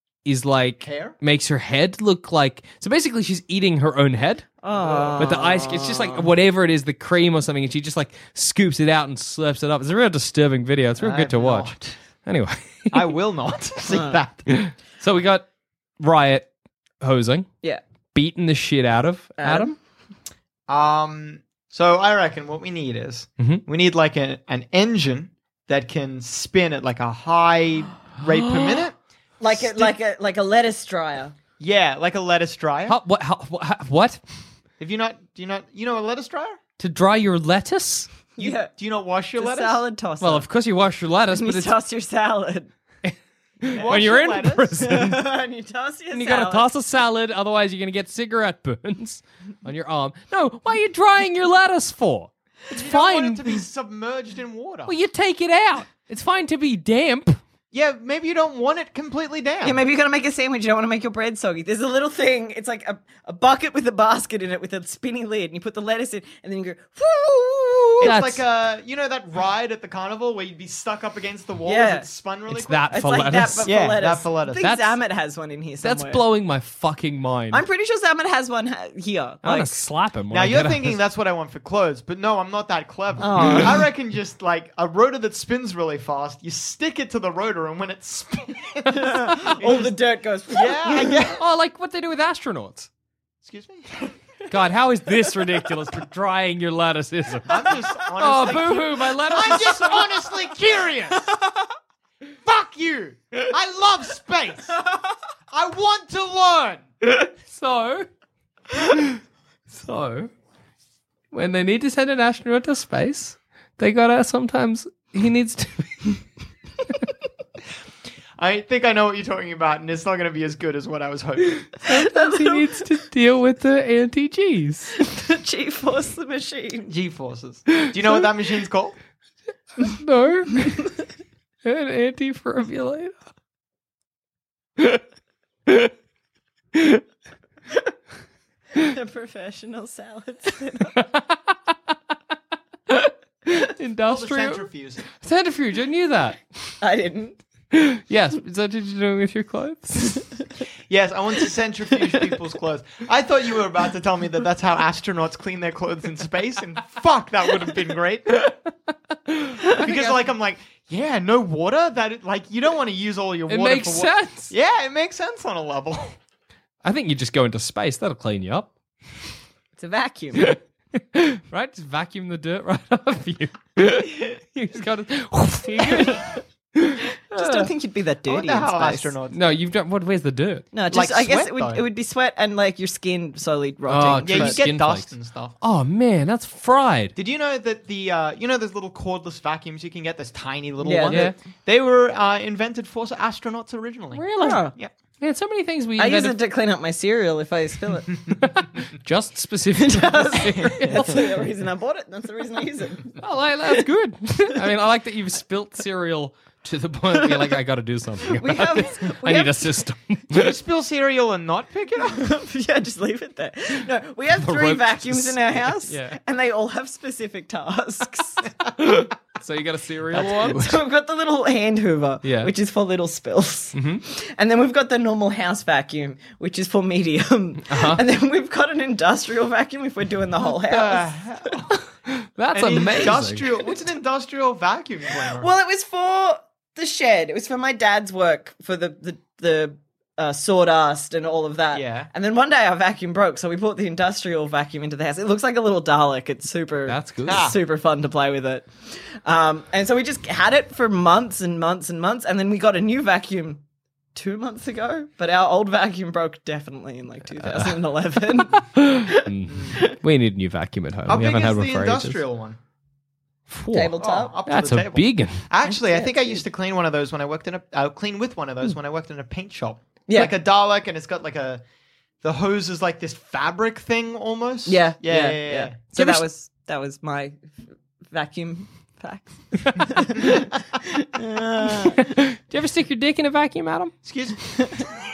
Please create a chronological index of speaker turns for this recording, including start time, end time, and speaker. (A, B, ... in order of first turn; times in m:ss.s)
0:00.2-0:04.6 A
0:00.8-0:01.2 B
0:04.6-0:06.3 C
0:04.7-0:05.4 B
0:05.2-0:11.7 A
0:11.0-0:12.0 B
0:12.2-0:13.1 A
0:12.9-0:14.4 B
0:13.9-0:14.2 C
0:14.5-0:15.4 A
0:16.0-0:16.5 A
0:17.0-0:17.5 A
0:18.1-0:19.7 A
0:19.4-0:19.7 C
0:20.7-0:29.9 B
0:29.4-0:31.3 C
0:31.6-0:33.0 B
0:32.9-0:34.2 A
0:34.8-0:36.6 B
0:36.8-0:38.1 A
0:38.4-0:38.7 C
0:38.4-0:39.8 B
0:39.4-0:40.5 C
0:40.2-0:41.8 A
0:41.3-0:42.7 C
0:43.0-0:45.2 A
0:43.7-0:44.8 B
0:44.8-0:46.7 C
0:46.1-0:53.6 A
0:52.7-0:54.9 B
0:54.8-0:57.4 A
0:57.7-0:59.8 B
0:59.6-1:08.1 C
1:08.0-1:14.6 B
1:08.0-1:08.4 A
1:11.6-1:12.1 C
1:12.5-1:14.0 A
1:12.9-1:16.2 C
1:14.6-1:15.0 A
1:15.8-1:17.6 A
1:17.5-1:19.8 C
1:19.4-1:21.0 A
1:20.3-1:29.9 B
1:23.2-1:23.8 C
1:28.9-1:31.2 C
1:30.5-1:31.4 B
1:31.4-1:32.9 A
1:33.4-1:34.1 B
1:34.5-1:40.0 A
1:37.4-1:41.3 B
1:42.4-1:44.8 B
1:45.5-1:46.8 B
1:47.2-1:48.0 A
1:48.7-1:50.3 A
1:51.3-1:56.2 A
1:58.4-2:01.8 B
2:01.7-2:05.0 A
2:01.9-2:02.7 C
2:05.0-2:06.9 C
2:06.9-2:09.0 B
2:09.8-2:11.0 A
2:11.6-2:13.1 A
2:16.8-2:17.0 A
2:18.8-2:21.0 C
2:22.9-2:26.4 A
2:24.0-2:25.1 B
2:26.8-2:27.4 C
2:27.7-2:30.4 A
2:30.9-2:38.4 B
2:39.3-2:40.2 A
2:39.7-2:46.2 B
2:43.5-2:44.5 A
2:46.8-2:48.7 A
2:49.8-2:50.6 C
2:50.4-2:57.7 A
2:55.8-2:56.3 C
2:57.3-2:59.1 C
2:58.2-2:59.5 B
2:59.3-3:00.7 A
3:00.7-3:04.6 C
3:00.8-3:01.8 B
3:03.9-3:07.1 A
3:04.2-3:05.6 B
3:07.2-3:14.9 B
3:10.8-3:11.3 C
3:11.1-3:11.4 A
3:14.1-3:16.4 A
3:14.4-3:14.7 C
3:16.0-3:18.1 C
3:18.4-3:21.2 A
3:19.7-3:23.1 C
3:23.2-3:30.5 A
3:27.1-3:27.6 C
3:28.2-3:29.7 C
3:30.3-3:32.3 B
3:32.1-3:38.4 C
3:34.4-3:36.2 A
3:38.8-3:40.8 A
3:40.2-3:51.1 C
3:42.2-3:42.5 A
3:43.7-3:44.0 A
3:47.7-3:48.0 A
3:50.4-3:51.7 B
3:51.8-3:53.7 A
3:52.5-3:55.5 B
3:55.3-4:13.6 C
4:01.7-4:02.1 B
4:06.9-4:07.5 A
4:07.3-4:07.5 B
4:14.1-4:19.9 C
4:17.4-4:17.8 A
4:18.5-4:22.2 A
4:19.5-4:19.9 B
4:21.0-4:22.6 B
4:23.5-4:25.4 A
4:23.7-4:24.3 C
4:24.0-4:31.6 B
4:25.6-4:26.4 C
4:30.1-4:30.3 C
4:32.2-4:36.2 B
4:34.6-4:37.5 C
4:38.1-4:42.1 C
4:41.9-4:44.0 A
4:44.0-4:44.9 B